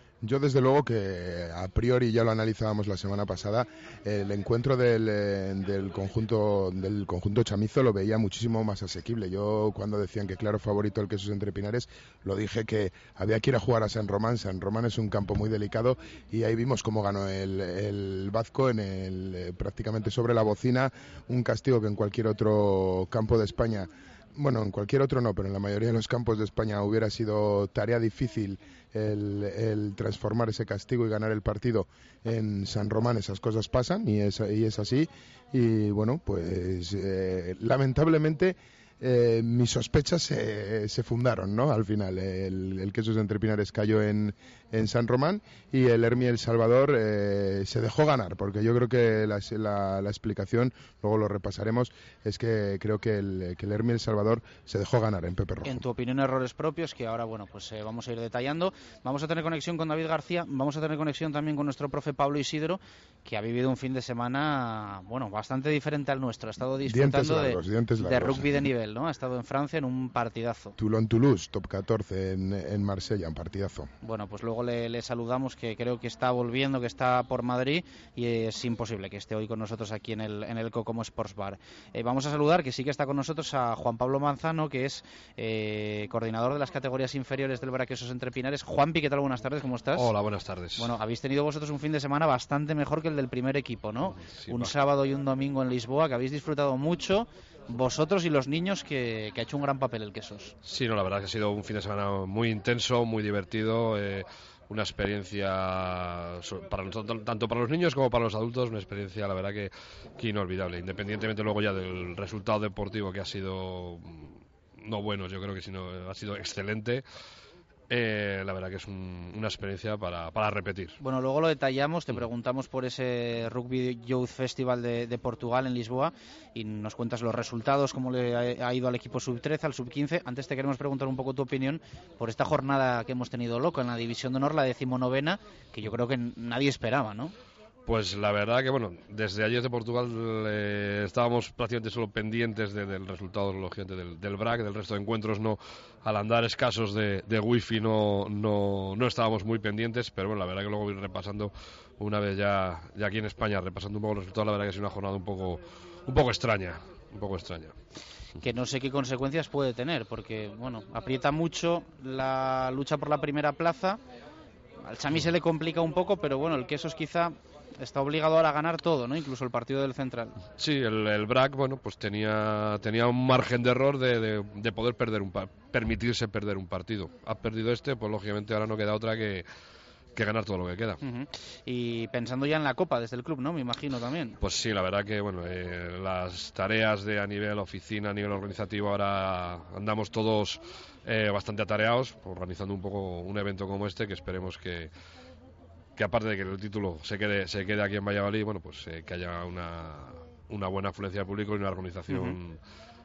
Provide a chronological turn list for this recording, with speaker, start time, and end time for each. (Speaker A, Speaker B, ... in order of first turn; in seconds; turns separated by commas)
Speaker A: 0.2-55.8, Speaker B: 55.6-70.8, Speaker A: 66.8-68.6, Speaker A: 70.8-73.9, Speaker B: 74.0-90.1, Speaker C: 89.9-90.9, Speaker B: 90.8-100.5, Speaker C: 94.2-94.7, Speaker C: 100.6-117.0, Speaker C: 117.9-121.0, Speaker B: 121.0-137.3, Speaker C: 137.8-157.7, Speaker B: 158.4-164.0, Speaker B: 164.8-170.4, Speaker C: 170.6-179.4, Speaker C: 180.2-181.0, Speaker B: 181.0-184.4, Speaker C: 184.4-194.9, Speaker C: 196.0-202.6, Speaker B: 202.1-202.4